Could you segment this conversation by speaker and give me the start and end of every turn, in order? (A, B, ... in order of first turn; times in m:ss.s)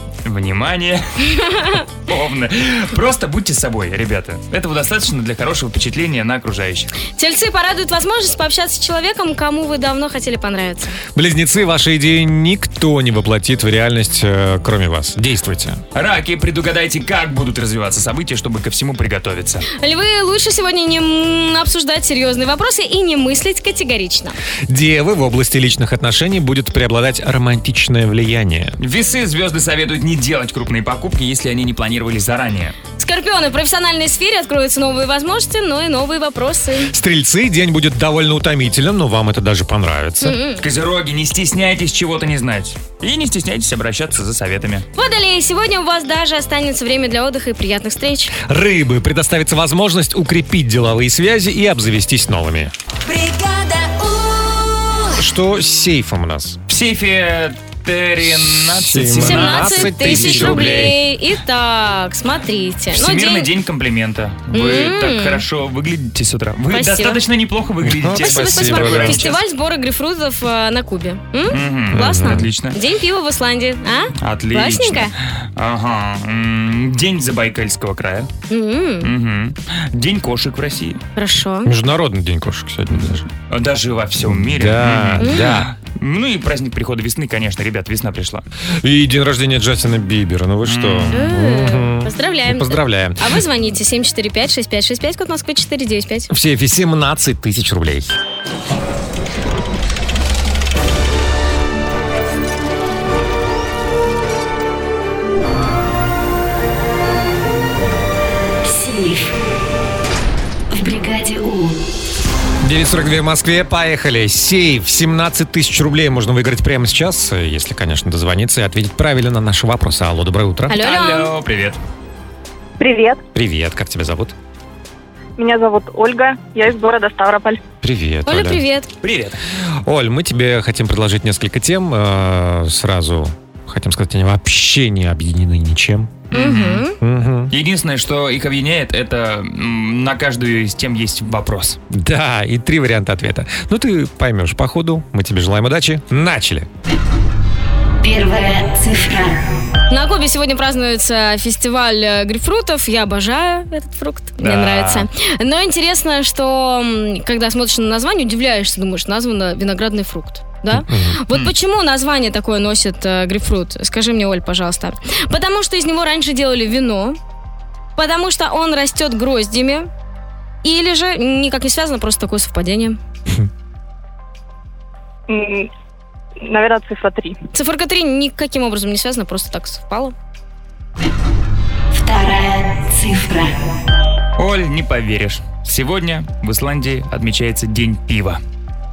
0:00.2-0:06.9 A
0:01.5-0:01.8 B
0:07.2-0:11.0 B
0:11.1-0:15.8 C
0:15.9-0:19.6 A
0:19.7-0:24.3 B
0:24.7-0:28.8 C
0:28.8-0:32.8 A
0:33.0-0:36.9 B
0:36.9-0:40.4 C
0:40.2-0:40.6 B
0:40.6-0:44.8 A
0:44.9-0:48.3 B
0:48.4-0:52.7 C
0:53.0-0:55.2 D
0:55.2-0:56.6 C
0:56.7-1:01.0 A
0:58.2-1:01.0 C
0:59.2-1:03.5 B
1:02.9-1:09.4 A
1:04.5-1:05.4 B
1:06.7-1:07.2 B
1:07.8-1:09.2 C
1:08.2-1:15.1 B
1:11.5-1:12.8 A
1:11.9-1:12.5 C
1:14.2-1:18.3 A
1:18.5-1:19.1 B
1:19.0-1:21.0 A
1:21.2-1:21.7 B
1:21.6-1:23.3 C
1:23.5-1:28.4 A
1:24.2-1:25.7 C
1:25.2-1:25.5 B
1:28.8-1:33.4 C
1:30.6-1:31.1 A
1:31.1-1:36.3 B
1:36.3-1:38.1 C
1:48.6-1:49.4 D
1:50.7-1:51.8 D
1:52.6-2:00.8 C
2:00.7-2:01.3 B
2:00.8-2:01.8 A
2:03.3-2:04.3 C
2:05.4-2:07.6 E
2:07.8-2:08.6 C
2:08.2-2:08.9 B
2:09.0-2:09.4 A
2:09.6-2:16.3 C
2:16.3-2:16.9 A
2:16.3-2:17.0 B
2:17.0-2:17.5 C
2:17.5-2:21.8 A
2:21.9-2:26.7 C
2:28.0-2:29.4 D
2:29.9-2:47.2 B
2:34.4-2:35.1 A
2:40.7-2:41.2 C
2:48.0-2:49.9 B
2:50.6-2:53.0 B
2:55.3-2:55.7 E
2:56.4-2:57.4 E
2:57.5-3:00.1 B
3:01.9-3:03.7 D
3:04.4-3:08.4 A